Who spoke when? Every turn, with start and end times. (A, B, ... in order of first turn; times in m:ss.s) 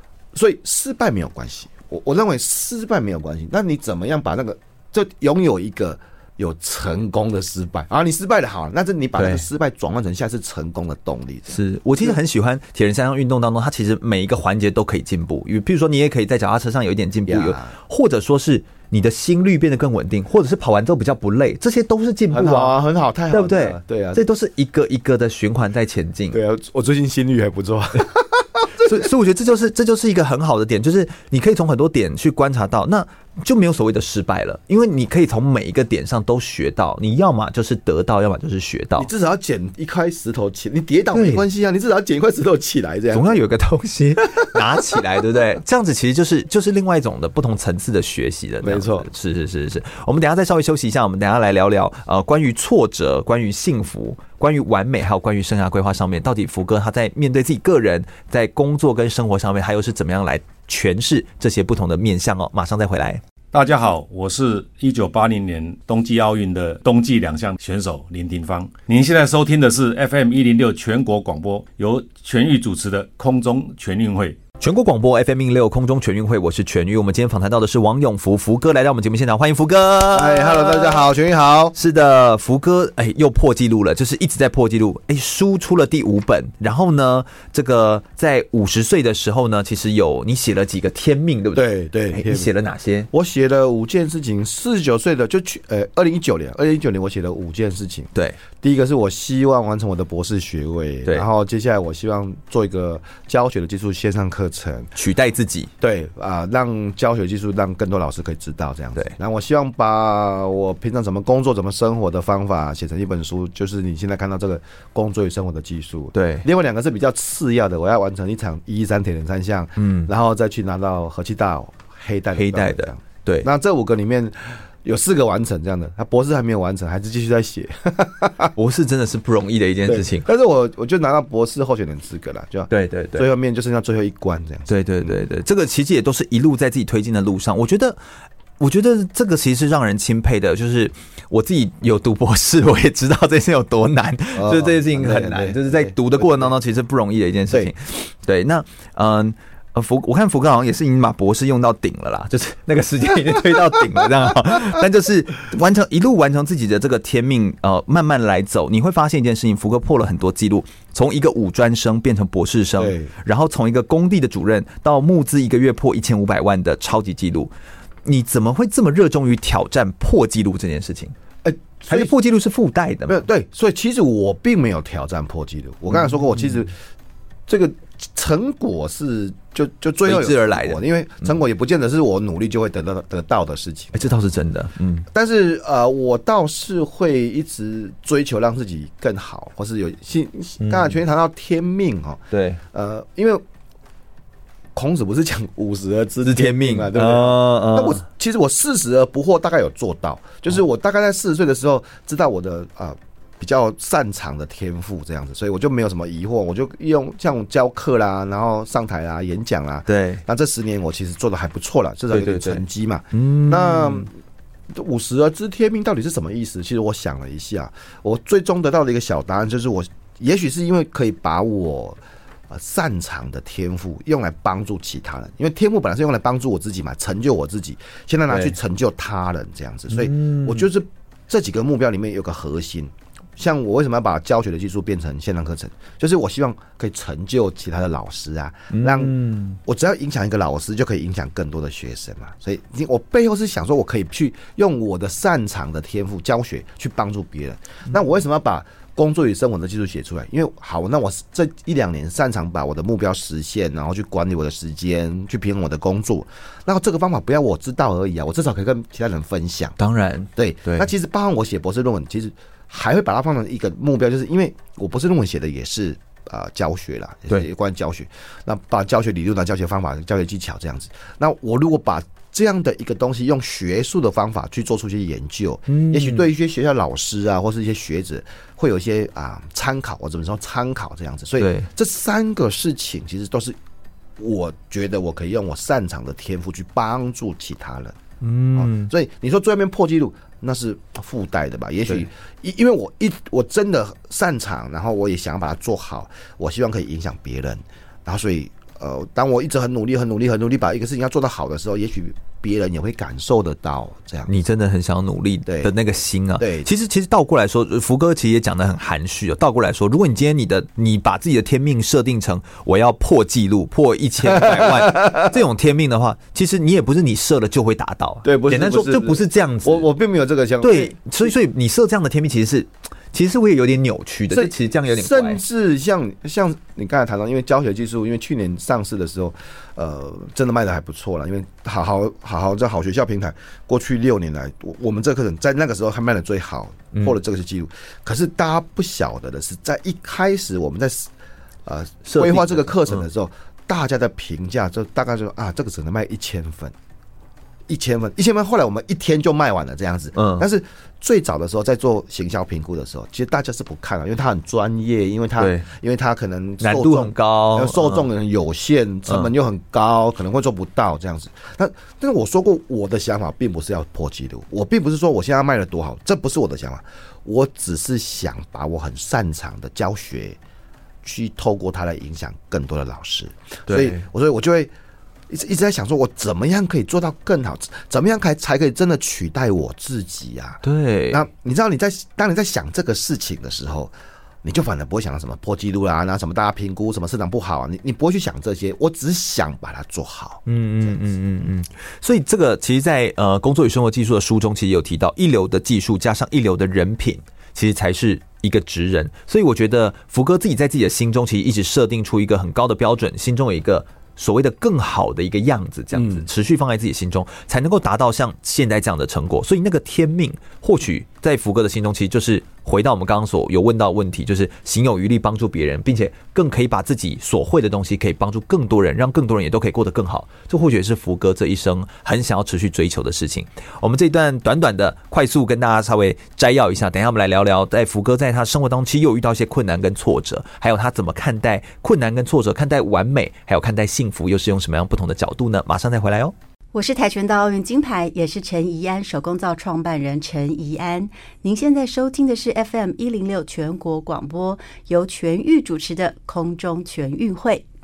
0:00.3-0:12.2 A
0:09.2-0:09.4 B
0:11.5-0:22.8 B
0:17.3-0:17.8 A
0:22.3-0:24.2 A
0:23.3-0:26.4 B
0:26.3-0:28.9 A
0:28.8-0:39.1 B
0:39.0-0:43.4 A
0:41.1-0:41.4 B
0:43.1-1:03.2 B
0:44.4-0:45.0 A
0:48.6-0:49.1 A
1:03.5-1:14.4 C
1:14.6-1:21.1 B
1:20.1-1:21.7 A
1:21.7-1:33.1 B
1:31.5-1:32.5 A
1:33.1-1:44.9 A
1:44.9-1:45.7 B
1:45.8-2:08.5 A
1:56.1-1:56.4 B
1:59.8-2:00.1 B
2:02.3-2:03.5 B
2:08.6-2:10.3 B
2:09.8-2:15.2 A
2:12.7-2:13.3 B
2:14.7-2:18.0 B
2:18.6-2:47.5 B
2:24.3-2:26.5 A
2:42.8-2:43.1 A
2:48.0-2:51.1 B
2:51.4-2:52.1 A
2:51.9-2:53.2 B
2:53.1-2:56.7 A
2:55.9-2:56.6 B
2:57.5-3:04.1 A
3:00.0-3:01.3 B
3:03.9-3:05.1 B
3:05.1-3:13.4 A
3:10.6-3:11.0 B
3:12.3-3:12.6 B
3:14.7-3:34.1 A
3:16.2-3:18.0 B
3:29.8-3:30.2 B
3:32.1-3:34.1 B
3:34.7-3:42.0 A
3:42.5-4:19.8 A
3:48.3-3:48.6 B
3:49.9-3:50.7 B
3:58.7-3:59.6 B
4:19.8-4:20.9 B
4:20.4-4:43.6 A
4:35.7-4:36.2 B
4:41.4-4:41.7 B
4:44.2-4:48.0 A
4:48.2-4:48.9 B
4:48.5-5:04.3 A
5:04.3-5:19.9 B
5:05.4-5:05.7 A
5:06.4-5:06.7 A
5:14.3-5:15.3 A
5:18.2-5:21.3 A
5:20.6-5:25.4 B
5:24.3-5:41.1 A
5:41.6-5:46.7 A
5:42.0-5:43.0 B
5:47.7-6:10.4 A
5:50.1-5:50.4 B
5:55.4-5:55.7 B
5:56.6-5:58.1 B
6:11.0-6:14.7 A
6:13.7-6:14.0 B
6:15.3-6:30.4 A
6:20.6-6:21.2 B
6:30.4-7:16.3 B
6:45.9-6:46.2 A
7:16.7-7:27.6 D